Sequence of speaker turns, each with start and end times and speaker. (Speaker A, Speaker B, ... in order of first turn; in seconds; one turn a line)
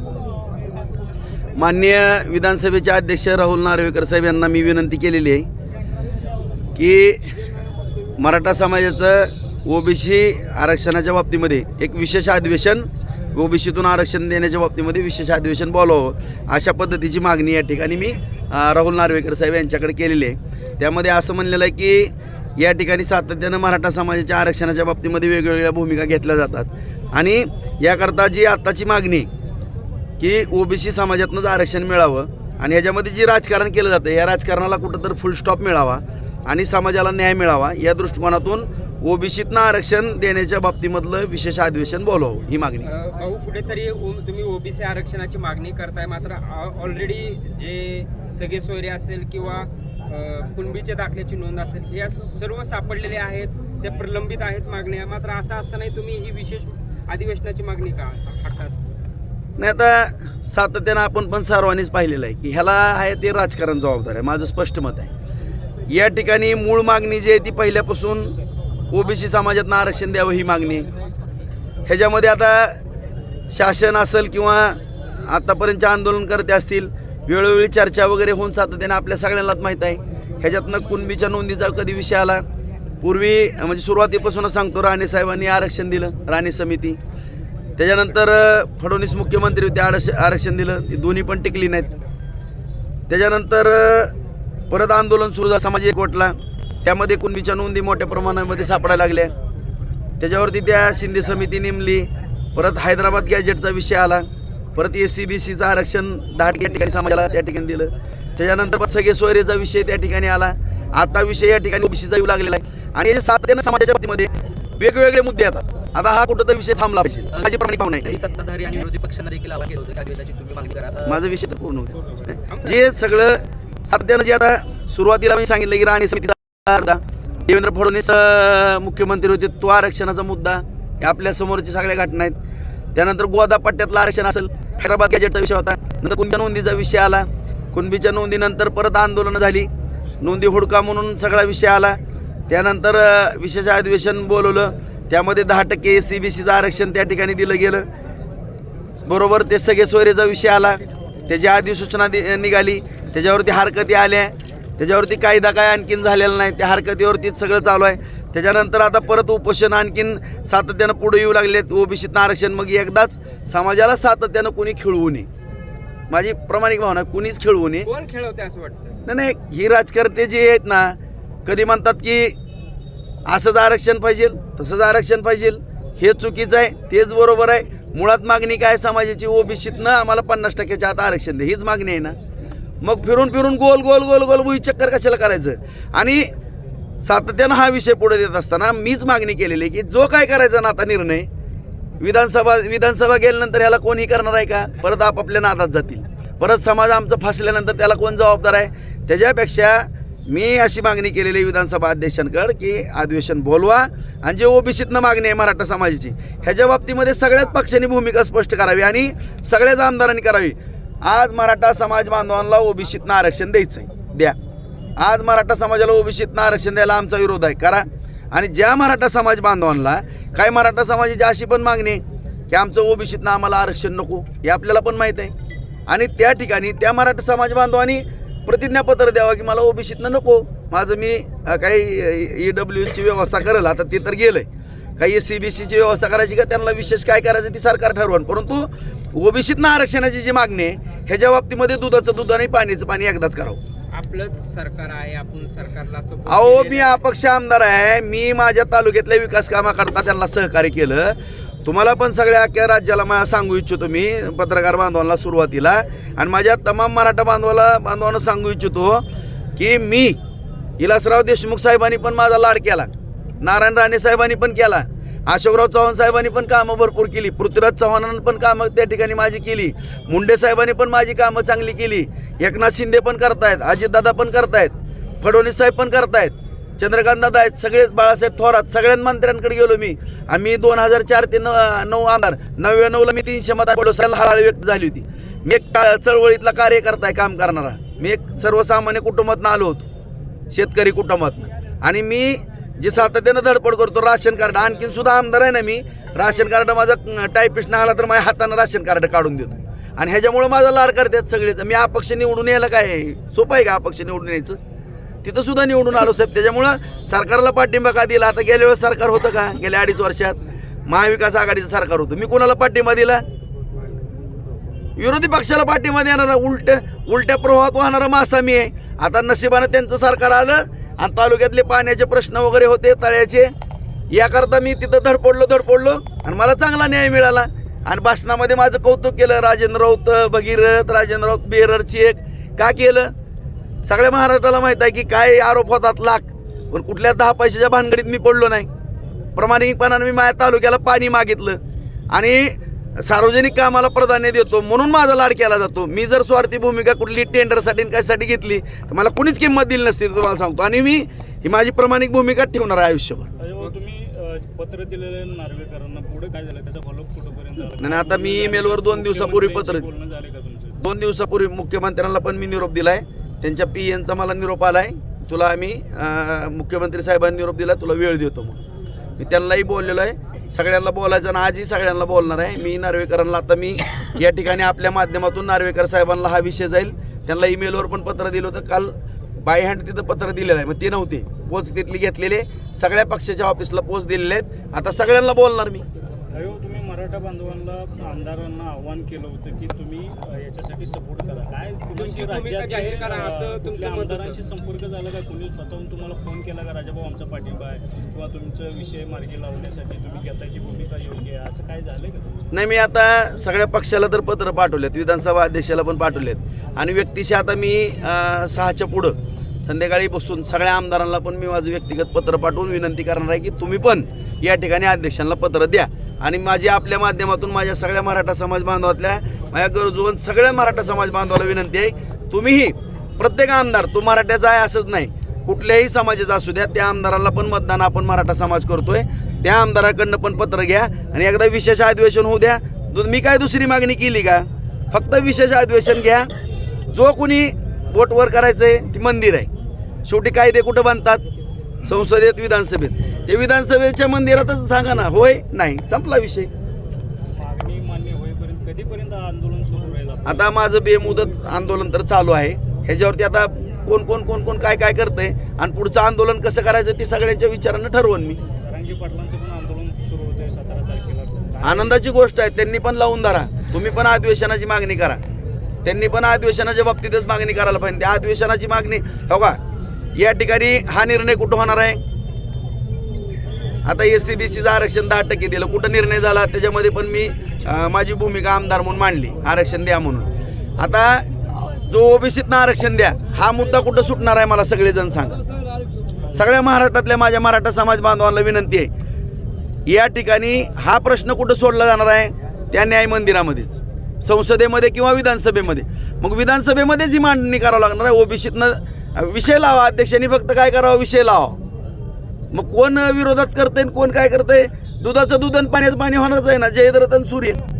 Speaker A: 1.5-5.5
Speaker A: 6.8-7.3
Speaker A: 8.2-29.3
Speaker A: 30.2-42.9
Speaker B: 42.8-58.8
Speaker A: 59.6-65.1
Speaker A: 65.9-68.3
Speaker A: 68.9-70.9
Speaker A: 71.9-72.8
Speaker A: 73.5-82.4
Speaker A: 83.0-87.0
Speaker A: 87.8-91.9
Speaker A: 93.1-94.1
Speaker A: 94.7-99.3
Speaker A: 100.2-118.2
Speaker C: 118.1-121.2
Speaker A: 121.0-132.3
Speaker B: 122.5-122.9
Speaker A: 132.9-139.7
Speaker A: 140.2-142.0
Speaker A: 142.5-147.9
Speaker A: 149.1-165.3
Speaker A: 166.1-167.9
Speaker B: 167.8-169.0
Speaker A: 169.1-172.3
Speaker A: 173.3-182.2
Speaker A: 182.8-186.3
Speaker A: 187.0-191.3
Speaker A: 192.0-214.3
Speaker A: 215.0-225.3
Speaker A: 225.9-234.4
Speaker A: 235.0-243.6
Speaker B: 243.9-247.0
Speaker A: 246.2-259.0
Speaker A: 259.6-260.2
Speaker A: 260.8-289.8
Speaker A: 290.5-304.6
Speaker A: 305.2-313.2
Speaker A: 315.0-323.5
Speaker A: 324.1-333.1
Speaker A: 333.8-338.7
Speaker A: 339.4-341.6
Speaker A: 342.1-353.3
Speaker D: 353.4-360.8
Speaker A: 357.8-359.9
Speaker A: 360.8-368.6
Speaker A: 369.2-385.8
Speaker D: 386.3-402.4
Speaker B: 391.9-394.4
Speaker A: 402.5-436.3
Speaker A: 436.9-439.5
Speaker A: 440.0-441.2
Speaker A: 441.8-446.5
Speaker D: 447.3-450.5
Speaker A: 450.2-458.4
Speaker D: 458.5-462.0
Speaker A: 461.6-465.2
Speaker A: 465.8-469.6
Speaker A: 470.1-472.0
Speaker A: 473.8-485.4
Speaker A: 486.3-488.9
Speaker A: 489.9-501.6
Speaker A: 502.5-507.6